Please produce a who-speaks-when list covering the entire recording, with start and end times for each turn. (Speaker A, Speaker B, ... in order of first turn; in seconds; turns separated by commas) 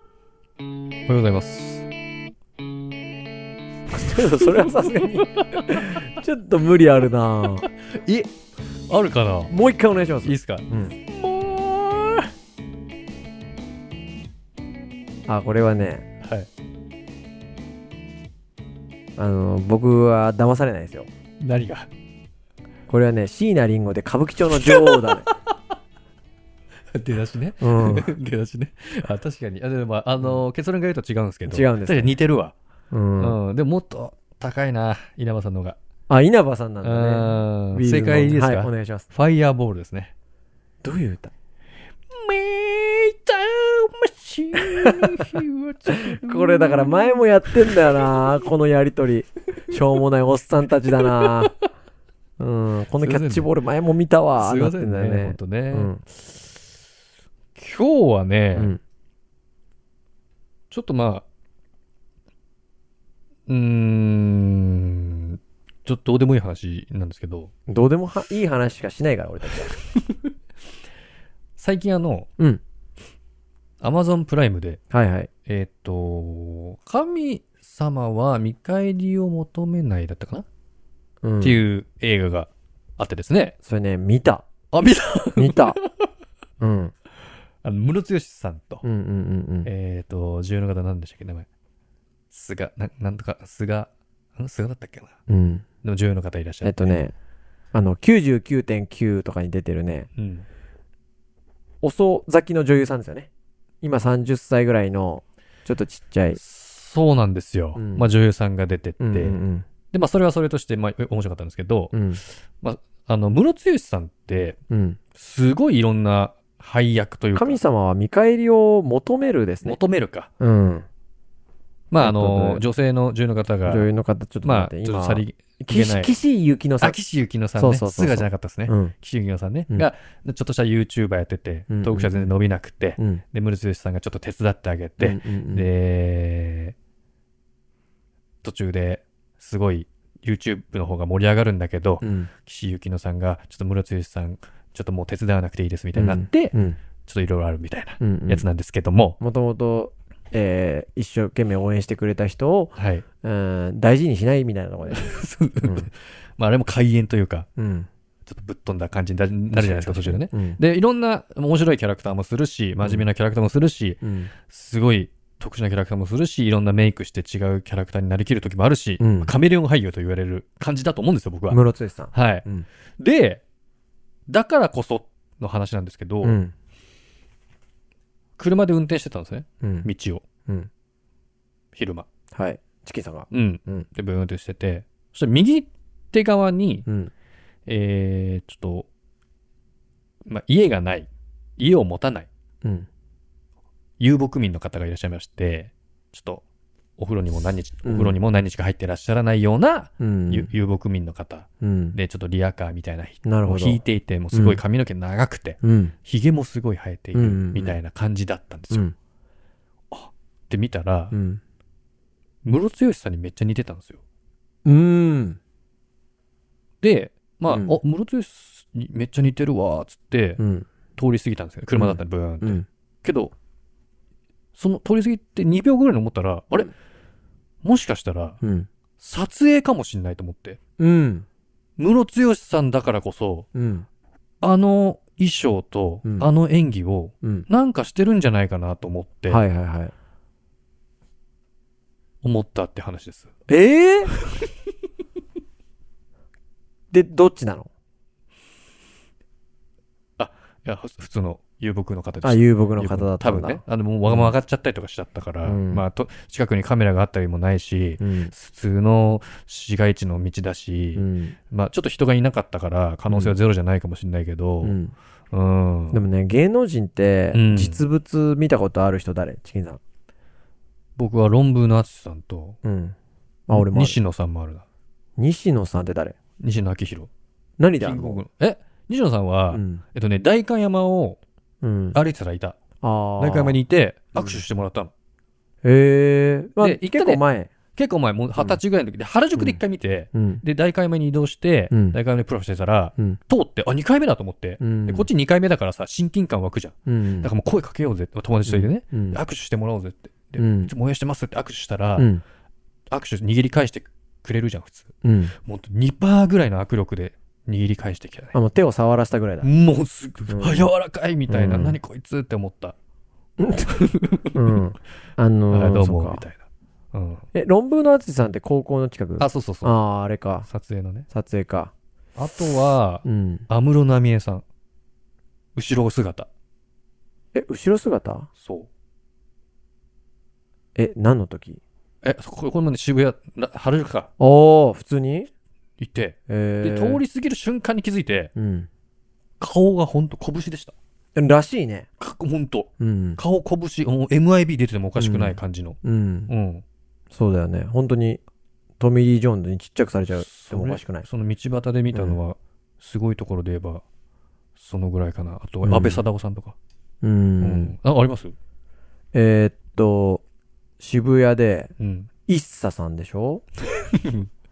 Speaker A: 1.1-1.9, Speaker B: 3.9-7.7, Speaker A: 4.4-5.7, Speaker A: 7.6-8.3, Speaker A: 8.9-9.5, Speaker B: 9.5-10.9, Speaker A: 10.2-12.3, Speaker B: 15.3-16.1, Speaker A: 16.2-16.5, Speaker B: 19.2-21.1, Speaker A: 21.4-21.9, Speaker B: 22.9-25.3, Speaker A: 24.6-25.1, Speaker A: 26.9-32.5, Speaker B: 27.6-28.1, Speaker B: 31.5-32.1, Speaker B: 32.9-33.4, Speaker A: 33.2-35.8, Speaker B: 36.1-39.1, Speaker A: 36.8-40.1, Speaker B: 40.8-41.3, Speaker A: 42.1-47.5, Speaker B: 44.7-45.3, Speaker B: 45.9-51.5, Speaker A: 51.2-51.5, Speaker B: 52.4-56.0, Speaker A: 53.0-53.5, Speaker A: 54.3-55.9, Speaker A: 57.5-58.7, Speaker A: 60.7-61.2, Speaker A: 63.5-67.5, Speaker B: 67.7-69.8, Speaker A: 71.6-72.3, Speaker A: 73.8-74.8, Speaker B: 74.9-75.3, Speaker A: 75.5-80.5, Speaker B: 81.2-81.6, Speaker A: 81.4-83.5, Speaker B: 83.6-84.5, Speaker A: 84.7-85.9, Speaker B: 85.4-85.8, Speaker B: 86.6-86.9, Speaker A: 87.6-88.8, Speaker B: 88.8-89.7, Speaker A: 89.6-91.5, Speaker A: 92.3-95.1, Speaker B: 95.3-95.7, Speaker A: 95.8-97.1, Speaker B: 96.6-97.1, Speaker B: 97.7-100.1, Speaker A: 100.2-100.5, Speaker B: 101.8-103.3, Speaker B: 103.8-106.4, Speaker A: 106.3-109.4, Speaker B: 107.8-108.1, Speaker B: 109.0-109.7, Speaker A: 109.9-111.9, Speaker B: 111.9-112.2, Speaker A: 112.6-114.6, Speaker B: 114.7-115.0, Speaker A: 115.1-117.6, Speaker B: 117.3-119.8, Speaker A: 119.6-120.3, Speaker B: 120.4-120.9, Speaker A: 121.9-123.9, Speaker B: 122.0-122.6, Speaker B: 123.7-127.0, Speaker A: 124.4-126.2, Speaker A: 126.8-136.8, Speaker B: 127.6-128.9, Speaker B: 131.7-132.3, Speaker B: 135.0-135.7, Speaker A: 138.4-149.2, Speaker B: 142.0-142.3, Speaker B: 145.9-146.8, Speaker B: 148.0-148.4, Speaker B: 149.2-155.9, Speaker A: 152.8-153.0, Speaker A: 154.9-157.5, Speaker B: 157.6-157.9, Speaker A: 158.2-171.6, Speaker B: 159.5-160.6, Speaker B: 162.8-163.1, Speaker B: 164.0-164.3, Speaker B: 169.0-169.3, Speaker B: 171.5-172.7, Speaker A: 172.1-172.4, Speaker A: 173.0-173.4, Speaker A: 174.3-176.4, Speaker B: 176.2-176.5, Speaker A: 178.4-180.2, Speaker B: 179.6-179.9, Speaker A: 181.8-182.1, Speaker B: 182.3-183.9, Speaker A: 183.3-186.8, Speaker B: 186.9-187.1, Speaker A: 187.7-188.9, Speaker A: 190.2-192.3, Speaker A: 194.0-196.4, Speaker A: 197.0-208.8, Speaker B: 197.8-198.2, Speaker B: 200.0-200.5, Speaker B: 201.6-201.9, Speaker B: 203.2-203.8, Speaker B: 204.3-204.6, Speaker B: 205.6-205.9, Speaker B: 207.1-207.8, Speaker A: 209.9-211.1, Speaker B: 211.1-211.4, Speaker A: 212.4-214.0, Speaker B: 214.7-215.4, Speaker A: 216.8-220.4, Speaker B: 217.5-217.8, Speaker B: 220.4-220.7, Speaker A: 220.9-223.3, Speaker B: 221.8-222.7, Speaker A: 224.6-226.7, Speaker A: 227.6-228.4, Speaker B: 228.4-228.7, Speaker A: 229.0-230.6, Speaker B: 230.8-231.2, Speaker A: 231.8-233.5, Speaker B: 233.5-233.9, Speaker A: 234.4-239.4, Speaker B: 239.3-239.9, Speaker A: 242.2-243.3, Speaker B: 243.5-244.1, Speaker B: 246.9-247.7, Speaker A: 250.2-264.8, Speaker B: 252.2-254.3, Speaker B: 255.4-255.8, Speaker B: 258.0-258.3, Speaker B: 260.9-261.4, Speaker B: 263.1-263.4, Speaker B: 264.6-264.9, Speaker A: 265.3-266.0, Speaker B: 265.9-269.8, Speaker A: 267.3-267.8, Speaker A: 271.0-272.6, Speaker B: 272.6-272.9, Speaker B: 273.5-274.0, Speaker A: 273.5-274.6, Speaker B: 275.2-276.1, Speaker A: 276.4-277.1, Speaker B: 277.6-278.2, Speaker A: 277.8-281.2, Speaker B: 279.5-279.8, Speaker B: 281.6-282.0, Speaker A: 281.9-282.6, Speaker B: 282.8-283.6, Speaker A: 283.2-284.9, Speaker B: 284.1-284.4, Speaker B: 285.6-287.5, Speaker A: 286.6-287.2, Speaker A: 287.7-302.1, Speaker B: 290.1-290.4, Speaker B: 291.7-292.0, Speaker B: 294.6-295.1, Speaker B: 296.9-297.3, Speaker B: 298.4-299.2, Speaker B: 300.4-300.7, Speaker B: 302.0-302.2, Speaker A: 302.9-304.9, Speaker B: 305.0-305.3, Speaker A: 305.4-308.4, Speaker B: 308.3-309.5, Speaker A: 309.4-312.8, Speaker B: 310.3-310.7, Speaker B: 311.3-311.8, Speaker B: 313.4-313.8, Speaker A: 313.8-314.4, Speaker B: 314.3-316.2, Speaker A: 315.5-317.2, Speaker B: 317.3-320.5, Speaker A: 319.2-319.8, Speaker A: 320.4-321.1, Speaker B: 321.1-321.7, Speaker A: 322.2-324.4, Speaker B: 323.0-323.5, Speaker A: 325.6-326.3, Speaker B: 327.3-328.3, Speaker A: 328.4-328.7, Speaker B: 330.8-331.6, Speaker A: 332.0-334.1, Speaker B: 334.2-335.3, Speaker A: 335.8-338.3, Speaker B: 336.3-337.0, Speaker B: 338.3-338.7, Speaker A: 339.4-340.7, Speaker B: 341.1-341.9, Speaker A: 342.0-345.8, Speaker B: 342.8-343.2, Speaker B: 344.9-346.3, Speaker A: 346.3-346.6, Speaker B: 347.1-348.2, Speaker B: 348.8-351.1, Speaker A: 350.1-353.8, Speaker B: 351.9-352.2, Speaker A: 354.6-356.6, Speaker B: 355.6-356.0, Speaker B: 357.0-357.8, Speaker A: 357.4-358.3, Speaker B: 359.1-360.2, Speaker B: 360.8-361.7, Speaker A: 361.8-362.1, Speaker B: 362.3-363.4, Speaker A: 363.9-364.3